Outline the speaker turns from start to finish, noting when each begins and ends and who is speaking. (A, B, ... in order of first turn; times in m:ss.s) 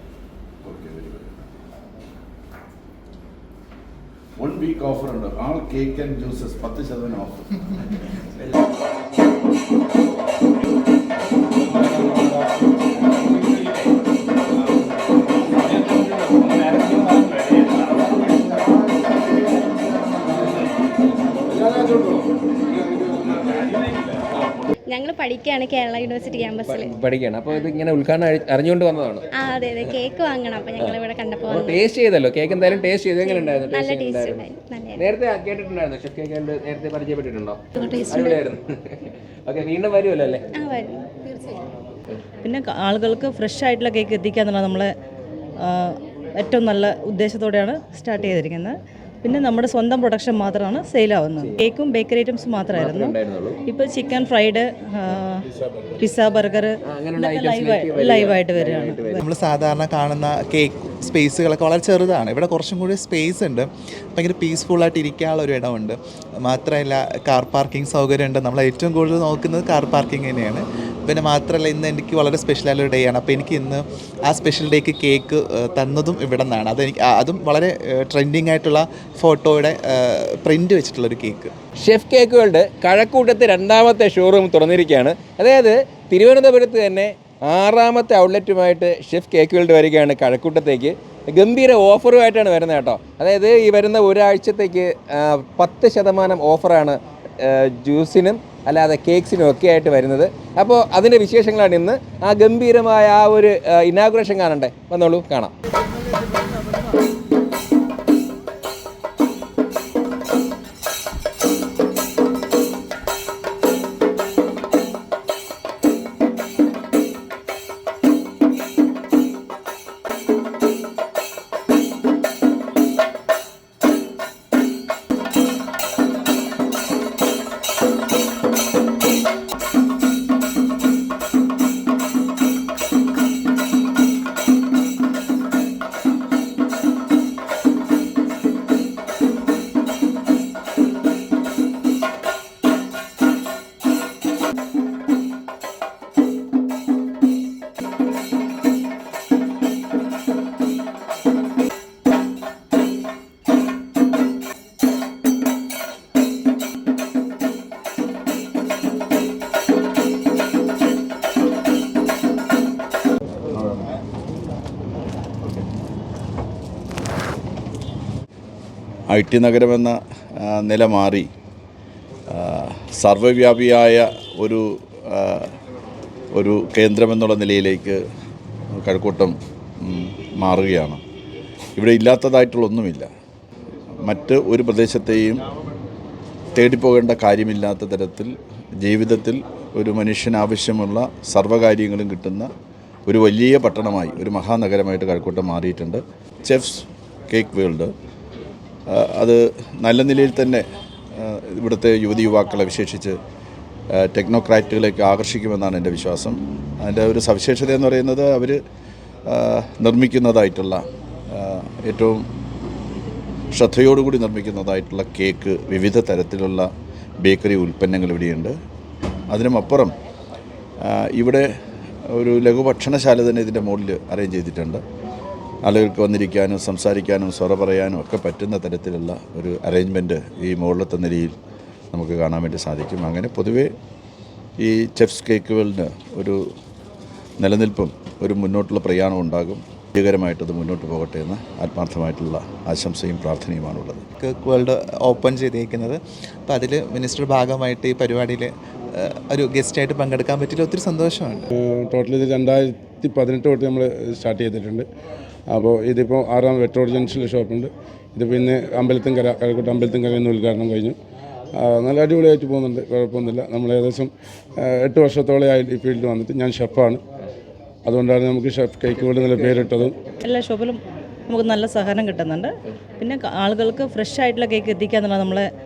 0:00.6-0:01.4 A
0:04.4-0:07.7 A
0:16.3-0:17.1 B
0:24.9-0:26.9 C
0:26.6-0:30.0 B
0:29.4-0:31.8 C
0:30.8-0:40.5 B
0:33.2-0:35.0 C
0:37.8-0:38.3 C
0:40.6-0:41.6 C
0:42.4-0:44.9 D
0:45.6-0:53.1 D
0:51.4-0:51.6 B
0:52.7-0:53.6 B
0:53.6-0:55.5 D
0:56.0-0:59.2 D
0:56.9-0:59.2 B
0:59.2-1:21.5 E
1:21.8-1:45.5 B
2:43.5-2:43.8 A
2:49.1-2:51.3 A
2:52.3-2:55.5 A
2:56.3-2:58.0 A
2:58.7-3:01.0 A
3:01.8-3:03.1 A
3:04.0-3:05.4 A
3:06.5-3:12.5 A
3:13.1-3:17.9 A
3:18.9-3:23.2 A
3:23.9-3:28.6 A
3:29.3-3:32.3 A
3:33.5-3:36.7 A
3:37.2-3:38.6 A
3:39.3-3:40.0 A
3:40.8-3:41.5 A
3:42.1-3:44.8 A
3:45.6-3:51.4 A
3:51.9-3:53.7 A
3:54.6-3:56.4 A
3:57.4-4:04.0 A
4:04.2-4:11.5 E
4:11.6-4:14.8 F
4:15.5-4:21.0 F
4:21.5-4:27.0 F
4:27.8-4:30.0 F
4:29.1-4:30.0 B
4:30.2-4:35.5 D